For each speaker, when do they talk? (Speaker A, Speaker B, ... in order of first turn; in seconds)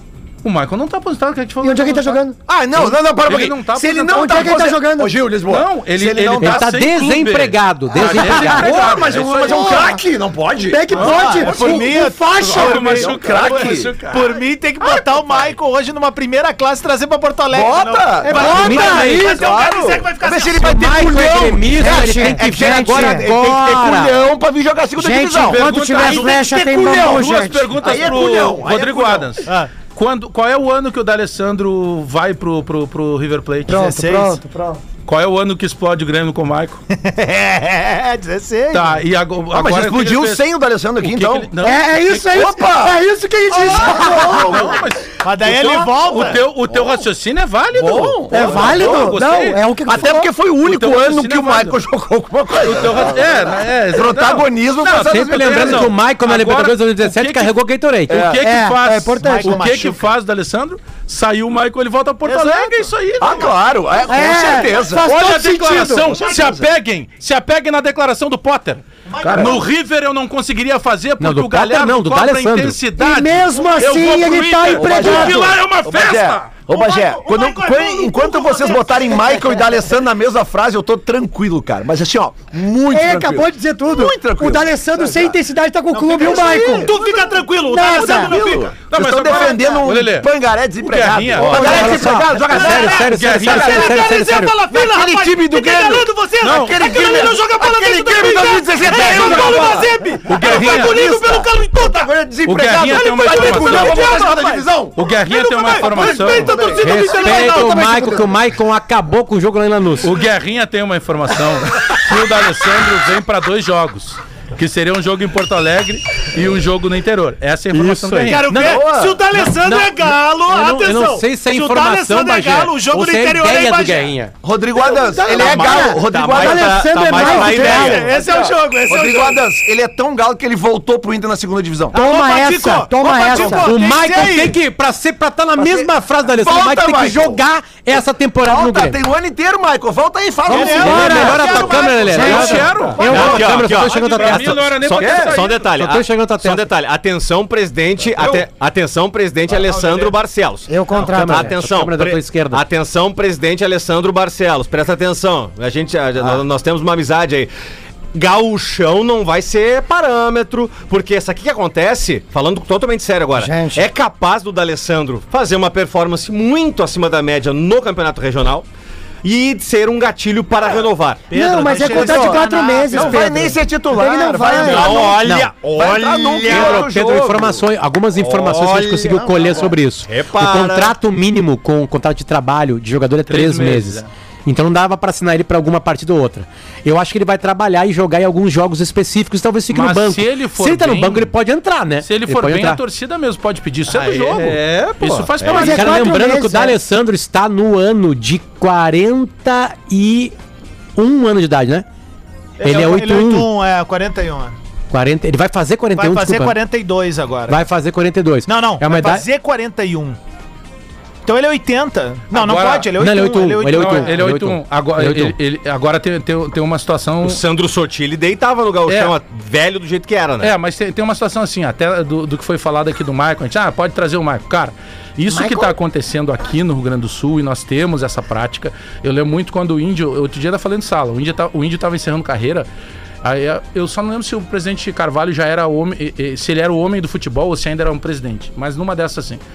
Speaker A: 0.4-2.2, 2.8-4.6, 5.5-9.8, 10.9-11.8, 12.4-14.4, 25.4-33.8, 35.0-36.8, 38.7-40.4, 41.0-42.5, 43.7-50.1, 50.6-51.8, 52.6-57.5, 58.1-63.5, 65.0-76.5, 88.8-92.0, 93.0-94.0, 96.4-97.1, 98.9-101.0, 102.5-104.2, 105.0-107.2, 110.0-118.5, 142.1-145.7, 183.3-184.1, 189.7-191.3, 192.0-196.1, 212.3-212.9, 213.7-217.4, 218.9-219.1, 220.4-232.7, 233.2-239.4
Speaker B: 1.6-2.4, 4.0-5.1, 8.1-10.0, 10.7-13.1, 18.2-19.6, 21.8-23.3, 25.0-28.0, 33.7-34.8, 41.6-44.8, 48.3-50.3, 58.4-59.7, 64.1-66.2, 73.0-75.6, 82.9-86.9, 87.7-88.4, 125.0-128.1, 131.9-133.7, 140.5-143.3, 150.7-151.5, 163.3-163.8, 171.3-175.0, 195.5-196.8, 225.3-225.7
Speaker C: 2.5-6.7, 8.0-11.9, 12.5-14.0, 17.5-29.4, 39.5-41.5, 42.3-43.0, 43.5-44.8, 46.7-47.0, 47.7-49.2, 49.9-55.9, 58.1-58.4, 63.2-66.7, 69.2-69.6, 74.7-85.3, 86.3-87.1, 88.0-94.0, 94.7-105.0, 105.6-108.2, 118.6-119.2, 124.4-132.0, 135.6-137.4, 138.4-141.7, 142.2-143.2, 171.9-177.6, 179.1-179.7
Speaker D: 6.4-8.7, 18.4-19.4, 20.5-24.2, 55.0-58.2, 71.2-72.8, 91.4-94.6, 106.8-110.2, 117.7-124.3, 133.6-139.0, 140.6-144.8, 145.6-146.7, 151.0-152.6, 175.2-175.5, 176.4-192.8, 195.5-200.3, 201.0-201.8, 202.6-203.5, 204.9-206.6, 207.5-209.2, 213.0-215.3
Speaker E: 10.9-21.1, 29.5-29.7, 33.7-34.4, 36.9-39.0, 45.2-46.4, 59.2-60.1, 62.2-62.9, 69.1-69.7, 76.7-79.5, 85.9-88.8, 91.6-102.0, 102.8-108.2, 118.2-124.1, 124.8-125.9, 127.2-129.4, 131.9-134.6, 140.5-143.3, 149.5-150.1, 171.3-173.3, 202.6-204.6, 205.9-207.6, 208.5-210.2, 211.2-214.1
Speaker F: 125.4-128.1, 142.8-157.5, 158.1-168.7, 169.2-171.3, 174.5-177.0, 178.1-180.9, 193.9-195.8, 217.2-220.5